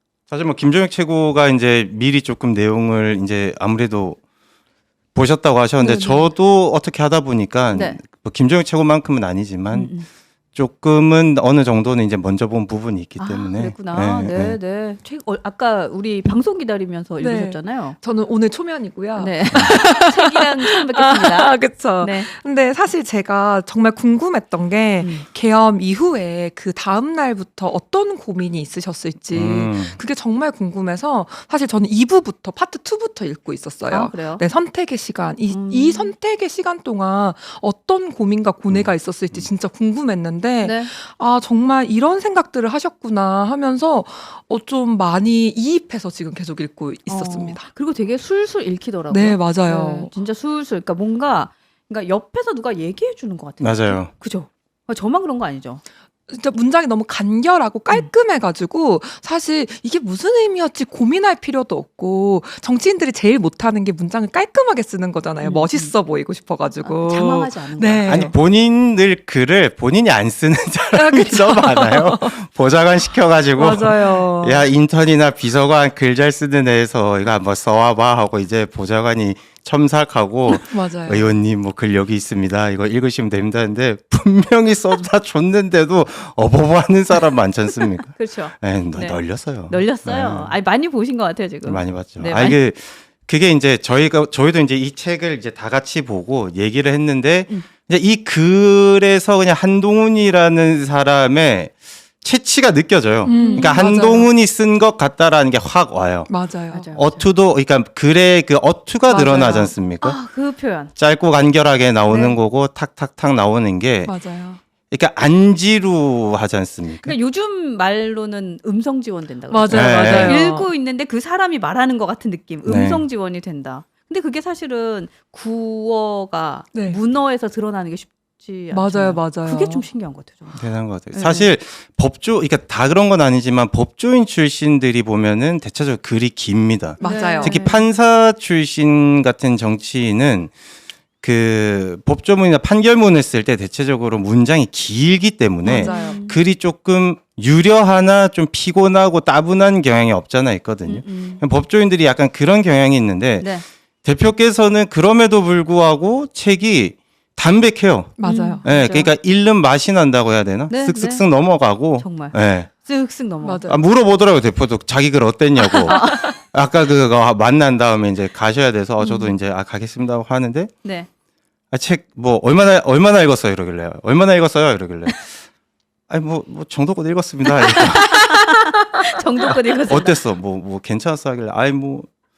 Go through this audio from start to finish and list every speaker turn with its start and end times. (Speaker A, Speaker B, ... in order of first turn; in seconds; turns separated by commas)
Speaker A: 0.3-4.2, Speaker A: 5.2-9.9, Speaker B: 5.8-6.3, Speaker B: 7.7-8.0, Speaker B: 9.7-10.1, Speaker A: 10.6-14.6, Speaker B: 13.2-18.0, Speaker C: 17.2-47.7, Speaker B: 19.2-22.3, Speaker B: 25.0-25.3, Speaker A: 29.3-30.0, Speaker B: 33.9-34.4, Speaker B: 35.5-36.1, Speaker A: 38.7-39.5, Speaker B: 40.6-40.9, Speaker B: 47.1-55.8, Speaker C: 49.1-50.1, Speaker A: 53.6-54.1, Speaker C: 56.3-68.3, Speaker B: 65.4-65.9, Speaker B: 66.8-68.3, Speaker A: 68.1-90.6, Speaker C: 70.9-72.4, Speaker C: 73.5-74.7, Speaker C: 80.5-81.3, Speaker B: 88.1-92.6, Speaker A: 91.7-106.4, Speaker C: 103.2-104.3, Speaker B: 103.3-103.8, Speaker C: 106.3-106.9, Speaker B: 106.7-107.3, Speaker A: 106.9-110.2, Speaker B: 109.1-110.9, Speaker A: 111.0-114.2, Speaker B: 112.1-112.4, Speaker C: 114.0-114.6, Speaker A: 114.9-117.2, Speaker B: 116.9-131.5, Speaker C: 119.5-120.7, Speaker A: 119.7-120.4, Speaker A: 122.7-123.0, Speaker C: 126.7-127.0, Speaker C: 128.7-129.9, Speaker A: 130.6-140.5, Speaker C: 137.0-137.6, Speaker B: 137.0-137.9, Speaker A: 141.2-153.5, Speaker C: 145.7-146.2, Speaker B: 145.7-146.4, Speaker B: 150.8-151.4, Speaker B: 153.4-153.7, Speaker A: 154.1-162.7, Speaker C: 158.2-158.6, Speaker B: 158.2-159.1, Speaker B: 160.7-161.3, Speaker B: 162.0-163.7, Speaker C: 163.4-163.8, Speaker A: 163.7-170.7, Speaker B: 165.8-166.3, Speaker B: 169.0-169.3, Speaker A: 171.7-175.3, Speaker A: 176.1-178.3, Speaker B: 177.8-180.2, Speaker A: 179.5-182.1